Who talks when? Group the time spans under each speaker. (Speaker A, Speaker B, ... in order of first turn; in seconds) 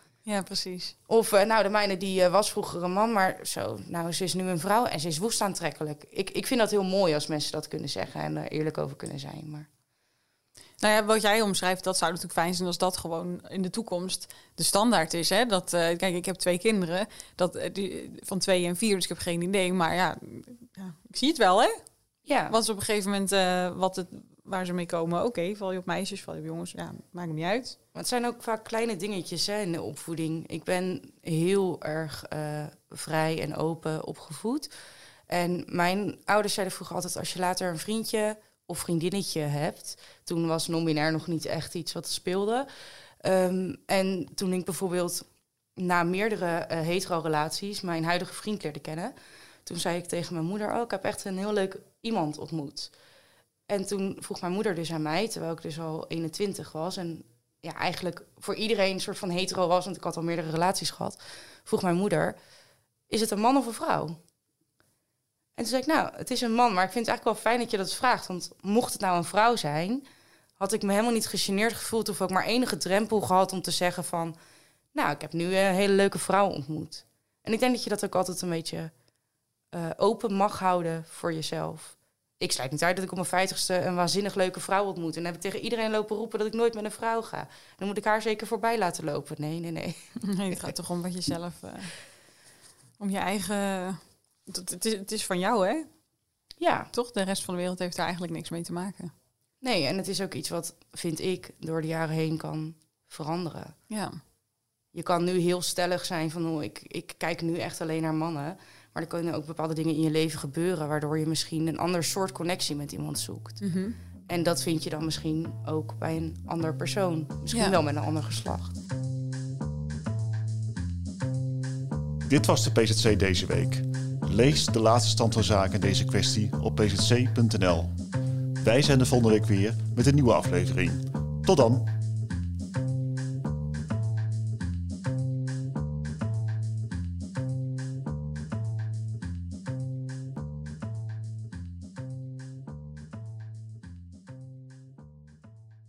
Speaker A: 0.2-0.9, 10.8-21.8, 22.5-27.8, 90.2-91.9, 93.0-95.9, 96.9-99.1, 103.9-104.2, 113.6-114.0
Speaker B: 1.1-9.7, 22.2-22.6, 27.9-34.7, 35.3-42.7, 43.2-45.2, 45.8-49.1, 49.6-52.9, 53.7-62.4, 63.1-64.2, 65.6-70.0, 70.6-74.3, 74.9-78.9, 79.7-90.6, 96.6-96.9, 99.6-103.7, 104.9-113.6, 114.3-118.7
Speaker C: 122.3-127.9, 128.6-131.9